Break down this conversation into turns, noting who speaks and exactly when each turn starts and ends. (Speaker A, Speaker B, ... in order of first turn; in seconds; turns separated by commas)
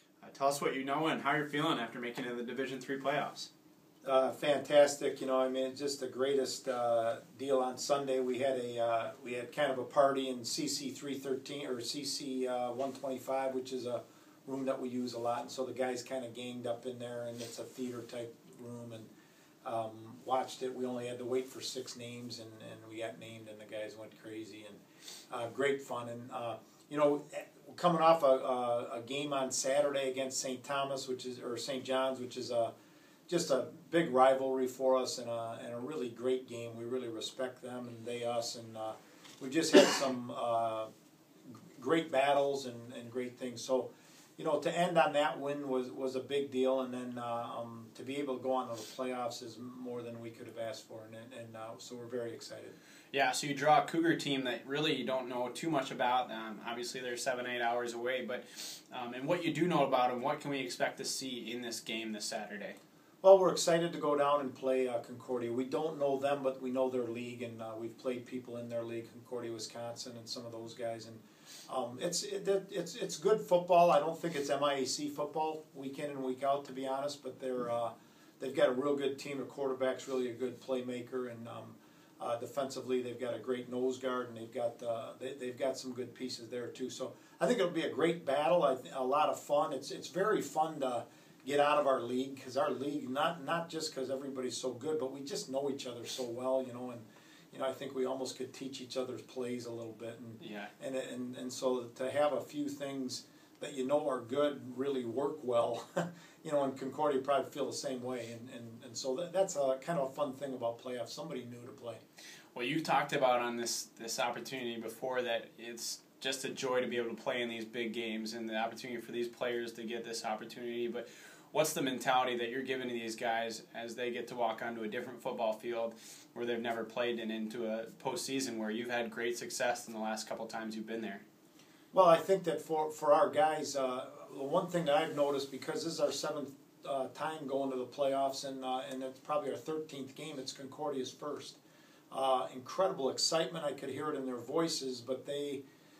Speaker A: 0.2-3.5, Speaker B: 4.0-19.1, Speaker B: 19.6-24.8, Speaker B: 25.3-32.7, Speaker B: 33.3-40.9, Speaker B: 41.5-52.7, Speaker A: 53.1-62.8, Speaker B: 63.2-112.0, Speaker A: 100.4-100.7, Speaker A: 112.5-131.2, Speaker B: 131.9-141.6, Speaker B: 142.1-145.6